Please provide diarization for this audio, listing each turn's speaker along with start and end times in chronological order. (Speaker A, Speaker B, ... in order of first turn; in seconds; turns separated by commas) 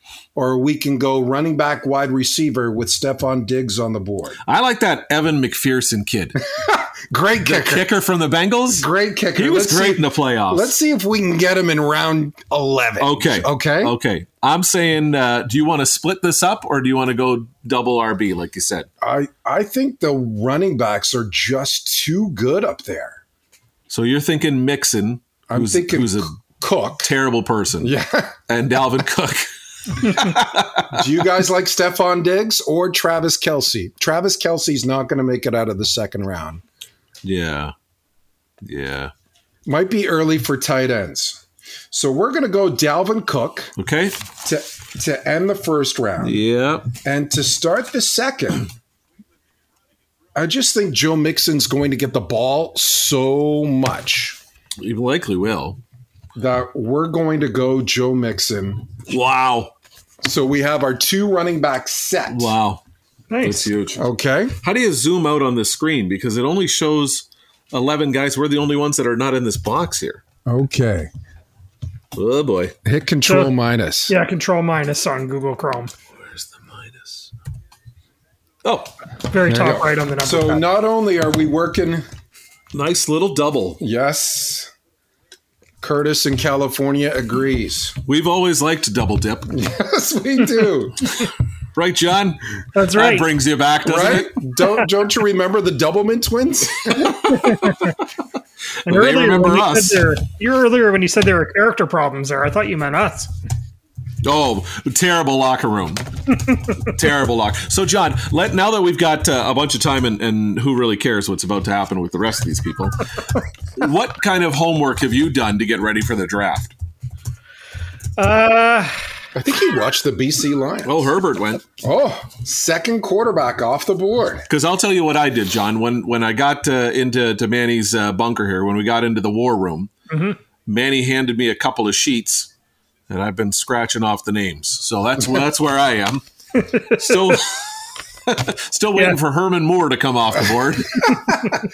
Speaker A: 0.3-4.4, Speaker B: 4.5-6.4, Speaker A: 6.5-7.9, Speaker B: 7.4-10.7, Speaker A: 8.7-13.9, Speaker B: 13.0-18.9, Speaker A: 19.0-23.2, Speaker B: 23.9-26.4, Speaker A: 25.5-27.1, Speaker B: 27.0-27.9, Speaker A: 27.8-28.4, Speaker B: 28.5-31.1, Speaker A: 30.9-36.6, Speaker B: 37.2-37.7, Speaker B: 38.6-39.1, Speaker A: 39.7-43.7, Speaker B: 43.8-44.1, Speaker A: 44.4-46.4, Speaker B: 46.2-46.9, Speaker A: 47.0-48.7, Speaker A: 50.4-54.4, Speaker B: 54.8-55.8, Speaker A: 56.4-58.9, Speaker B: 59.1-59.7, Speaker A: 60.2-62.5, Speaker B: 62.3-62.8, Speaker C: 63.3-63.7, Speaker B: 63.4-64.0, Speaker A: 64.0-64.5, Speaker B: 64.6-70.2, Speaker A: 70.5-71.1, Speaker B: 72.2-72.7, Speaker A: 72.8-74.1, Speaker C: 73.3-73.5, Speaker C: 74.1-75.9, Speaker B: 76.2-77.3, Speaker B: 78.6-78.9, Speaker C: 79.3-80.7, Speaker A: 79.5-82.0, Speaker B: 82.7-83.8, Speaker A: 83.8-84.7, Speaker A: 85.8-88.0, Speaker B: 88.1-89.5, Speaker A: 89.5-91.1, Speaker B: 91.8-94.4, Speaker C: 92.8-93.3, Speaker A: 93.8-97.2, Speaker B: 96.9-97.8, Speaker C: 97.5-97.8, Speaker B: 98.8-100.0, Speaker C: 98.9-103.3, Speaker B: 104.2-106.1, Speaker B: 106.8-113.1, Speaker B: 113.8-116.7, Speaker C: 118.2-119.0, Speaker A: 119.3-121.1, Speaker B: 120.8-121.6, Speaker A: 121.8-124.5, Speaker B: 124.5-129.9, Speaker C: 130.1-130.4, Speaker B: 130.7-132.5, Speaker B: 133.1-136.2, Speaker B: 136.8-137.7, Speaker B: 138.3-141.2